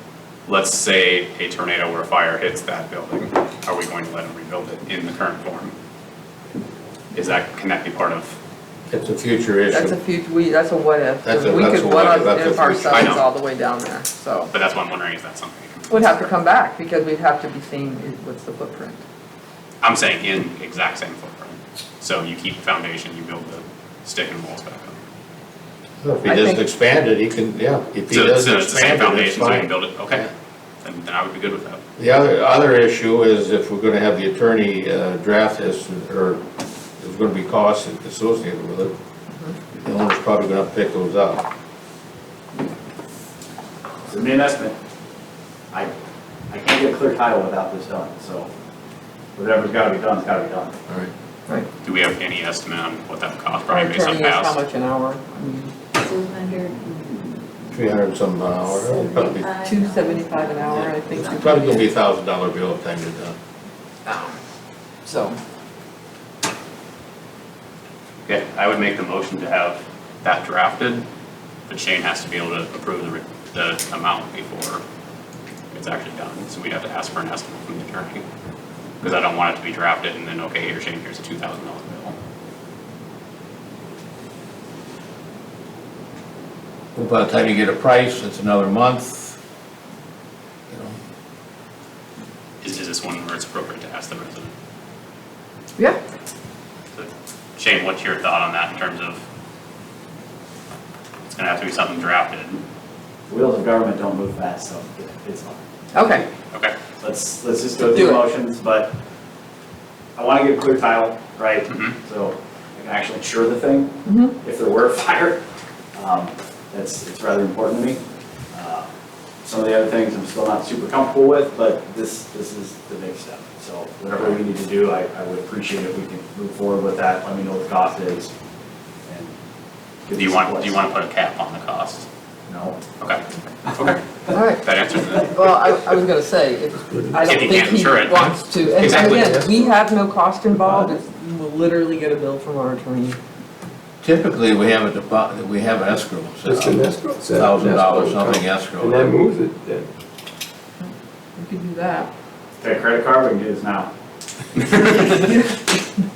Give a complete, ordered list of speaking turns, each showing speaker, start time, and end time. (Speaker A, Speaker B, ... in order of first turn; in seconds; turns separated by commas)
Speaker A: 0.5-5.7, Speaker A: 7.1-8.3, Speaker B: 8.9-9.9, Speaker C: 9.7-14.5, Speaker B: 11.2-13.2, Speaker A: 12.9-13.2, Speaker A: 14.5-16.3, Speaker C: 15.9-19.0, Speaker A: 19.8-25.0, Speaker B: 26.0-30.3, Speaker C: 26.2-26.6, Speaker A: 28.1-30.3, Speaker A: 30.8-31.8, Speaker B: 32.0-36.4, Speaker B: 37.0-38.9, Speaker B: 39.7-41.4, Speaker D: 44.1-44.8, Speaker D: 46.5-48.5, Speaker D: 49.3-50.7, Speaker A: 51.8-54.5, Speaker C: 53.7-55.7, Speaker E: 56.0-57.4, Speaker B: 57.7-59.5, Speaker E: 58.6-61.7, Speaker C: 59.6-61.8, Speaker B: 60.7-63.3, Speaker C: 64.0-64.4, Speaker C: 65.0-65.4, Speaker A: 68.2-71.0, Speaker A: 71.7-74.8, Speaker A: 75.7-78.2, Speaker A: 79.0-82.2, Speaker B: 86.9-89.4, Speaker B: 90.7-91.0, Speaker A: 92.6-94.5, Speaker A: 96.9-99.2, Speaker A: 101.3-102.6, Speaker D: 103.3-106.2, Speaker C: 105.9-106.2, Speaker A: 106.5-106.9, Speaker D: 107.0-108.9, Speaker C: 107.8-108.2, Speaker D: 110.2-115.4, Speaker A: 111.7-112.0, Speaker C: 114.0-114.3, Speaker D: 115.9-118.0, Speaker D: 118.5-118.8, Speaker D: 119.4-128.3, Speaker A: 124.2-124.4, Speaker D: 129.1-129.3, Speaker D: 130.1-130.8, Speaker A: 130.1-132.1, Speaker D: 132.5-132.8, Speaker A: 133.7-134.0, Speaker C: 134.3-134.6, Speaker A: 134.6-135.3, Speaker C: 135.2-143.2, Speaker F: 136.8-137.3, Speaker D: 137.1-137.4, Speaker A: 137.2-139.3, Speaker F: 138.7-139.8, Speaker F: 140.5-140.9, Speaker B: 144.0-149.2, Speaker F: 146.4-149.9, Speaker C: 150.8-152.1, Speaker D: 152.6-153.9, Speaker A: 154.6-155.3